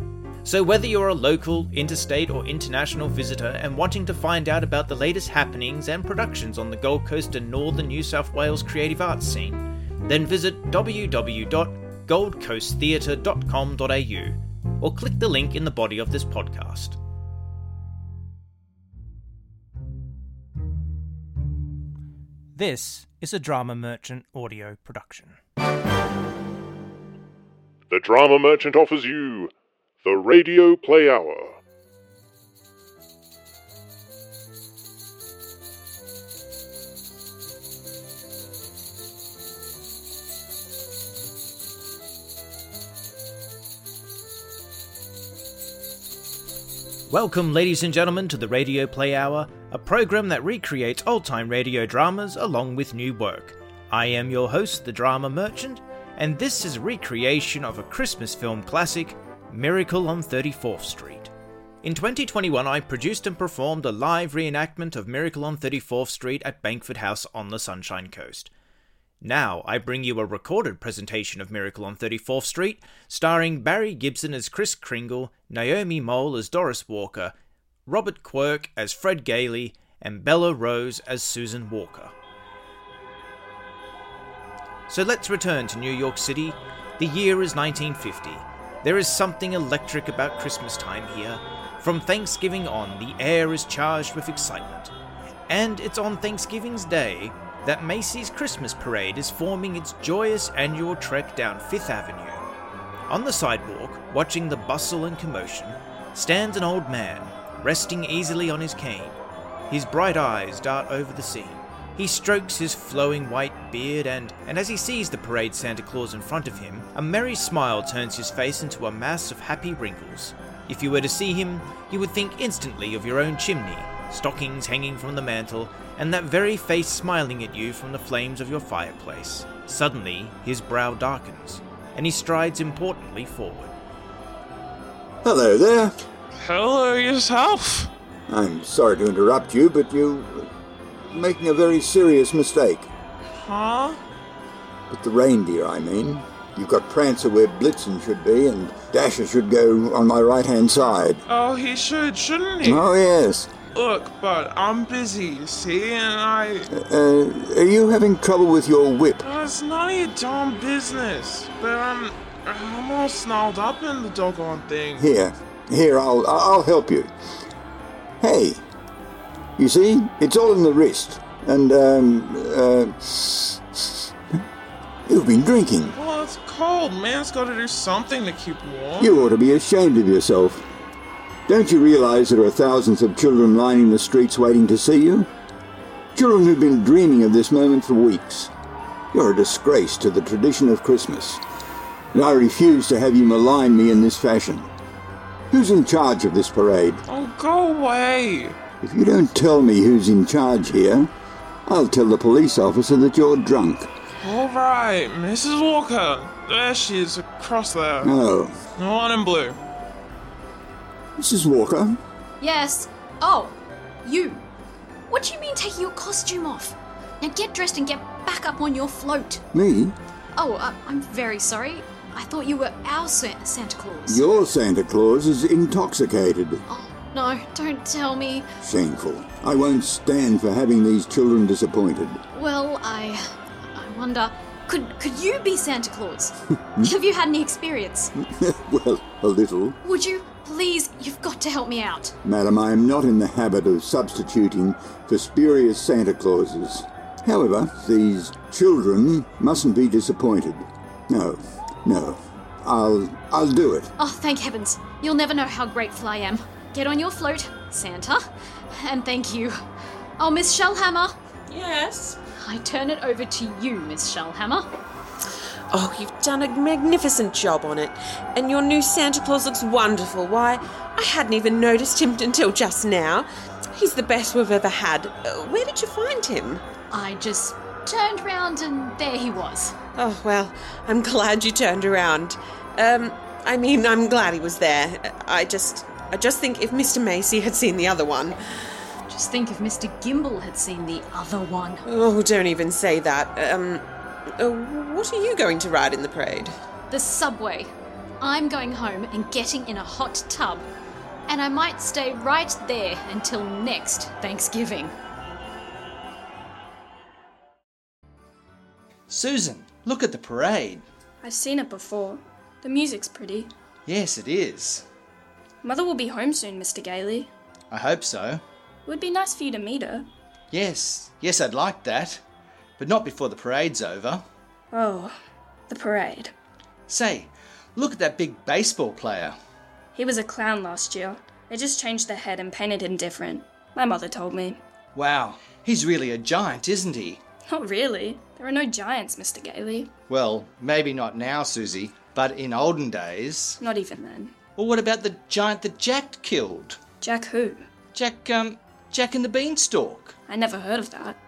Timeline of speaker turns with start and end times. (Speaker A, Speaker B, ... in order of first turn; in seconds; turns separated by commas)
Speaker A: 0.5-17.0, Speaker A: 22.6-25.4, Speaker B: 27.9-29.5, Speaker B: 30.0-31.6, Speaker A: 47.1-61.3, Speaker A: 61.8-68.5, Speaker A: 69.2-77.3, Speaker A: 77.9-82.1, Speaker A: 84.9-94.9, Speaker A: 95.5-102.4, Speaker A: 103.1-109.2, Speaker A: 109.7-133.7, Speaker C: 135.2-136.0, Speaker D: 136.4-137.9, Speaker C: 138.3-140.5, Speaker C: 141.1-142.9, Speaker D: 143.4-144.0, Speaker C: 144.9-151.2, Speaker D: 151.3-152.9, Speaker C: 152.6-153.5, Speaker D: 153.7-156.7, Speaker C: 156.7-159.3, Speaker D: 159.2-165.1, Speaker C: 165.0-167.1, Speaker C: 168.2-168.6, Speaker C: 169.6-174.1, Speaker C: 175.1-176.0, Speaker D: 175.9-179.2, Speaker C: 179.0-180.6, Speaker C: 181.5-185.3, Speaker C: 186.2-188.5, Speaker C: 189.1-191.4, Speaker C: 192.1-194.7, Speaker C: 195.5-197.0, Speaker D: 197.1-198.6, Speaker C: 198.8-201.1, Speaker C: 201.7-203.9, Speaker D: 204.2-208.2, Speaker C: 208.0-208.6, Speaker D: 208.8-209.6, Speaker C: 211.2-212.0, Speaker E: 212.4-214.4, Speaker E: 215.1-219.4, Speaker C: 219.5-219.9, Speaker E: 220.3-224.5, Speaker C: 224.1-226.7, Speaker E: 226.7-228.5, Speaker C: 228.6-232.2, Speaker E: 232.3-238.1, Speaker C: 238.2-239.8, Speaker E: 239.8-242.2, Speaker C: 242.2-253.9, Speaker E: 254.0-258.2, Speaker E: 258.7-259.6, Speaker E: 260.2-261.1, Speaker F: 261.5-262.2, Speaker E: 262.4-264.7, Speaker F: 265.7-276.6, Speaker E: 276.9-279.8, Speaker F: 280.0-288.4, Speaker E: 289.1-291.8, Speaker F: 291.9-293.9, Speaker F: 294.4-296.5, Speaker E: 296.9-300.7, Speaker E: 301.3-304.9, Speaker G: 309.1-310.9, Speaker H: 311.2-313.5, Speaker G: 313.9-314.9, Speaker H: 315.6-317.3, Speaker G: 317.7-318.4, Speaker H: 318.9-320.1, Speaker G: 320.5-322.2, Speaker G: 322.8-324.2, Speaker H: 324.7-325.1, Speaker H: 325.7-326.3, Speaker G: 326.9-329.4, Speaker H: 329.9-334.6, Speaker G: 334.9-337.2, Speaker H: 337.5-339.9, Speaker G: 340.1-343.6, Speaker H: 343.6-344.3, Speaker G: 344.6-346.8, Speaker H: 347.0-347.6, Speaker G: 347.9-350.1, Speaker H: 350.3-351.2